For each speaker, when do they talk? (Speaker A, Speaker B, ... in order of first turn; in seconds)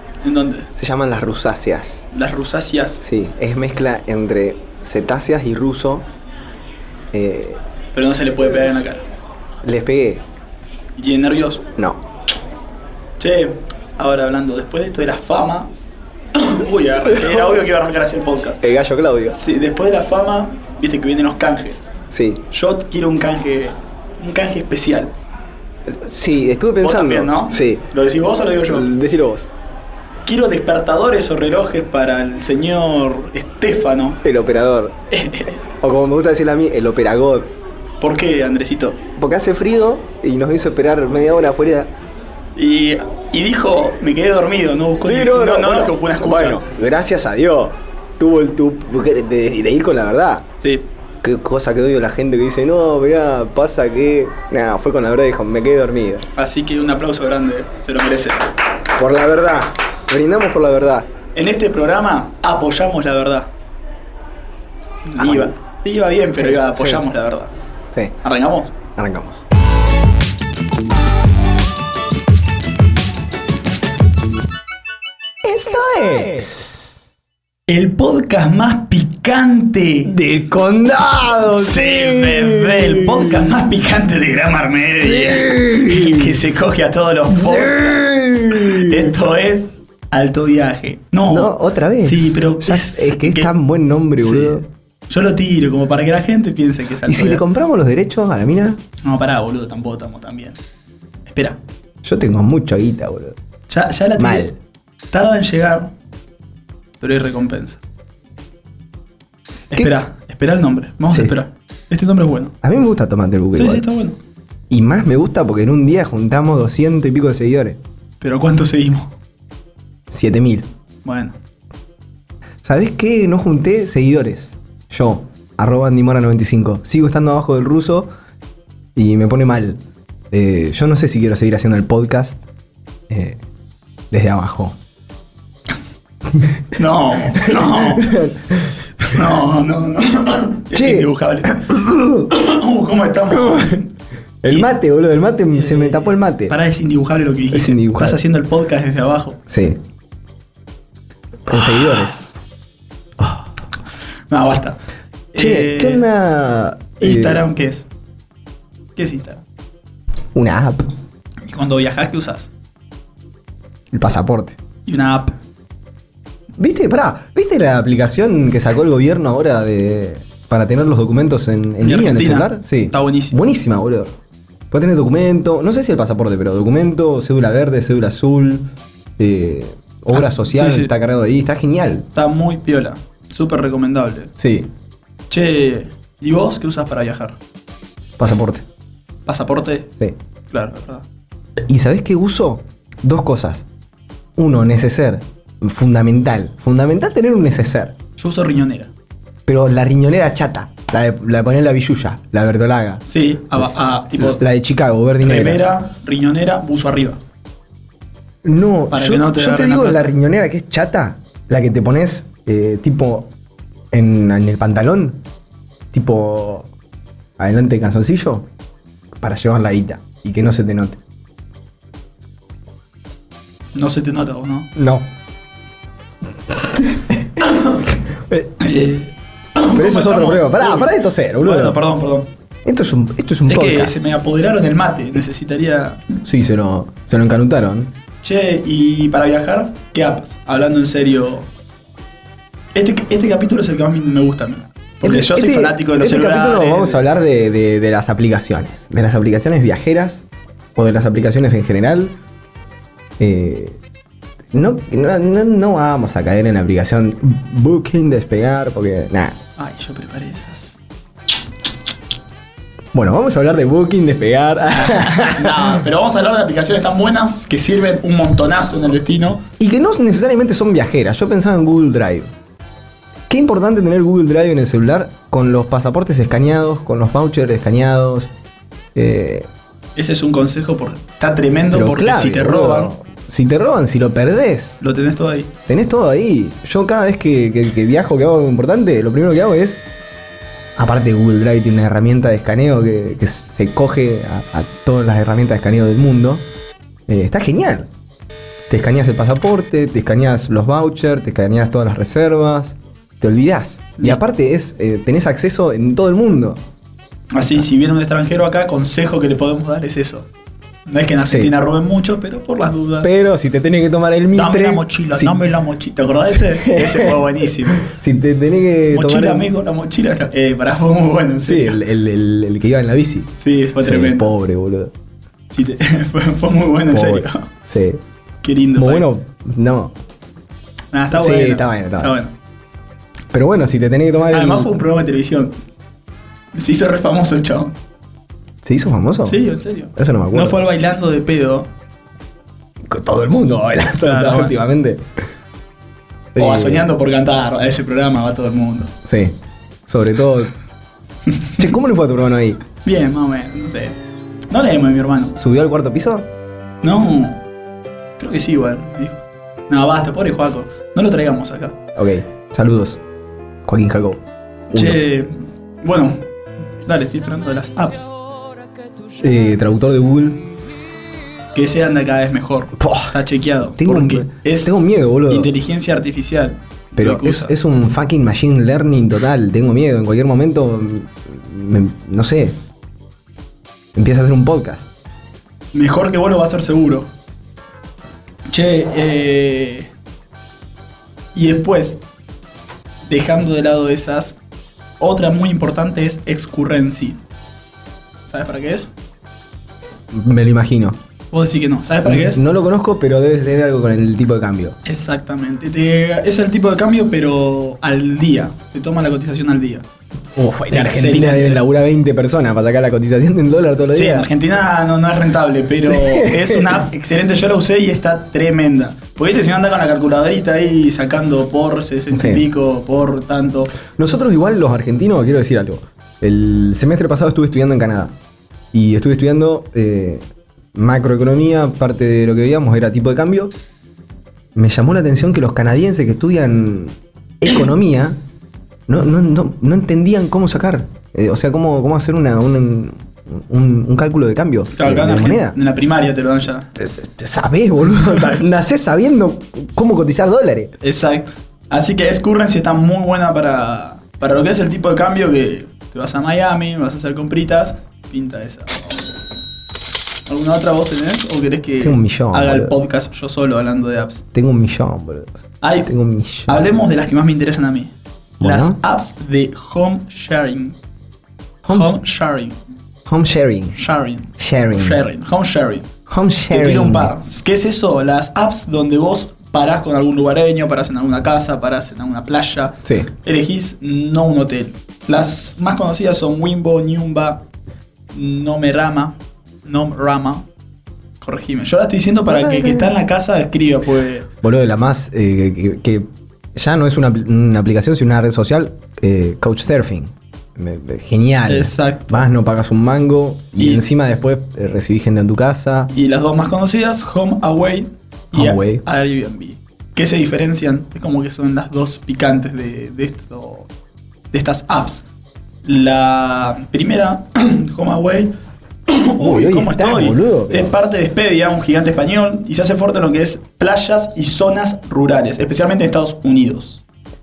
Speaker A: 0.2-0.7, 2.1-3.0, 7.9-9.0, 10.9-11.6, 13.2-15.7, 16.3-18.6, 19.3-21.8, 22.5-25.1, 26.8-28.9, 30.2-34.2, 35.1-35.6, 38.0-39.0, 42.5-46.6, 50.6-50.9, 56.3-58.5, 61.3-63.5, 65.0-67.5, 68.2-68.8, 77.7-80.1, 81.4-88.0, 88.5-93.5, 94.2-97.4, 99.0-100.6, 101.2-101.6, 103.7-104.5, 105.1-105.9, 107.0-107.8, 109.7-112.5, 113.5-114.2, 118.2-119.1, 121.0-121.3, 136.7-138.2, 139.0-141.8, 142.3-143.9, 145.5-149.4, 151.5-152.2, 154.3-154.8, 155.3-156.0, 157.0-157.8, 158.9-159.4, 161.5-162.5, 164.8-165.3, 171.8-173.4, 180.1-180.9, 182.1-184.3, 185.3-187.4, 189.2-189.9, 190.5-191.0, 198.2-198.9, 203.1-204.4, 205.2-207.2, 208.9-210.1, 223.7-224.7, 227.5-227.8, 228.6-232.3, 233.5-236.0, 238.2-241.5, 242.7-247.1, 259.6-260.8, 264.7-269.4, 279.9-282.9, 284.8-285.5, 307.3-310.3, 310.9-313.1, 314.3-317.9, 318.9-321.8, 323.4-324.3, 325.5-327.5, 328.4-329.1, 330.9-332.3, 334.3-335.5, 336.5-337.8, 339.2-341.7, 344.0-344.5, 346.4-348.9, 352.8-354.0, 354.5-355.3, 356.8-357.4, 358.2-361.8, 364.7-366.2, 366.8-368.1, 371.5-374.7, 375.3-377.5, 385.7-387.1, 388.5-389.9, 391.3-392.0, 393.0-394.4, 395.0-397.2, 398.3-398.9, 401.3-402.4, 404.8-409.8, 410.7-411.6, 413.8-423.7, 444.7-446.7, 450.8-459.1, 460.3-464.2, 465.6-465.9, 466.5-470.8, 471.7-472.6, 473.8-475.9, 476.5-487.4, 488.1-490.5, 491.2-494.3, 501.5-502.3, 503.6-503.8, 505.9-513.7, 514.3-515.0, 515.6-518.3, 518.9-526.8
Speaker B: 0.7-2.0, 3.0-6.1, 7.1-7.6, 9.6-10.2, 17.1-17.5, 18.6-19.4, 22.1-22.4, 25.9-27.8, 28.7-29.5, 34.2-35.0, 35.8-37.5, 39.1-41.9, 45.0-50.4, 51.2-56.2, 59.0-61.1, 65.2-65.5, 66.3-67.0, 69.0-69.4, 75.4-76.9, 80.0-83.5, 85.0-86.4, 87.3-89.1, 91.3-94.7, 97.0-98.8, 102.0-103.3, 104.2-104.5, 111.1-111.3, 112.6-113.8, 114.7-117.8, 120.1-120.7, 122.6-128.1, 128.9-129.8, 130.3-132.4, 133.1-133.4, 134.1-134.8, 137.3-138.7, 140.7-142.3, 143.3-143.8, 144.4-146.5, 147.5-148.2, 149.5-149.8, 151.5-152.3, 155.3-157.4, 160.3-160.9, 163.9-164.6, 166.6-174.1, 174.7-182.1, 184.4-184.7, 188.2-188.6, 191.7-193.6, 194.4-197.9, 199.4-203.0, 204.2-205.7, 208.4-213.3, 213.9-215.2, 215.9-216.7, 217.4-218.5, 219.2-221.0, 224.7-225.1, 226.5-228.5, 229.7-231.8, 232.6-234.1, 236.2-237.9, 245.0-250.2, 250.8-252.1, 253.2-253.8, 254.5-259.4, 262.9-265.8, 269.6-272.3, 273.3-278.3, 278.9-279.5, 281.7-284.8, 285.7-289.8, 290.8-296.4, 297.1-297.9, 298.7-306.6, 313.0-315.3, 316.3-319.5, 321.4-323.3, 323.8-324.9, 326.9-328.0, 328.8-329.9, 331.1-332.1, 333.3-334.7, 338.6-339.4, 339.9-340.6, 342.9-345.0, 346.3-346.9, 349.0-349.4, 349.9-350.5, 351.6-352.6, 355.3-356.3, 361.9-363.0, 363.6-365.0, 369.2-370.4, 372.8-375.5, 376.9-382.6, 383.9-384.9, 400.1-401.0, 402.0-404.8, 410.4-414.3, 415.9-416.8, 422.1-422.4, 423.9-428.1, 428.7-430.2, 430.7-433.6, 434.5-438.2, 438.9-445.6, 446.8-450.7, 461.8-462.8, 464.3-465.3, 465.8-466.8, 468.4-468.8, 471.6-471.9, 473.1-473.8, 474.4-475.0, 476.1-477.1, 492.3-492.9, 494.4-505.9, 508.3-508.8, 519.2-520.8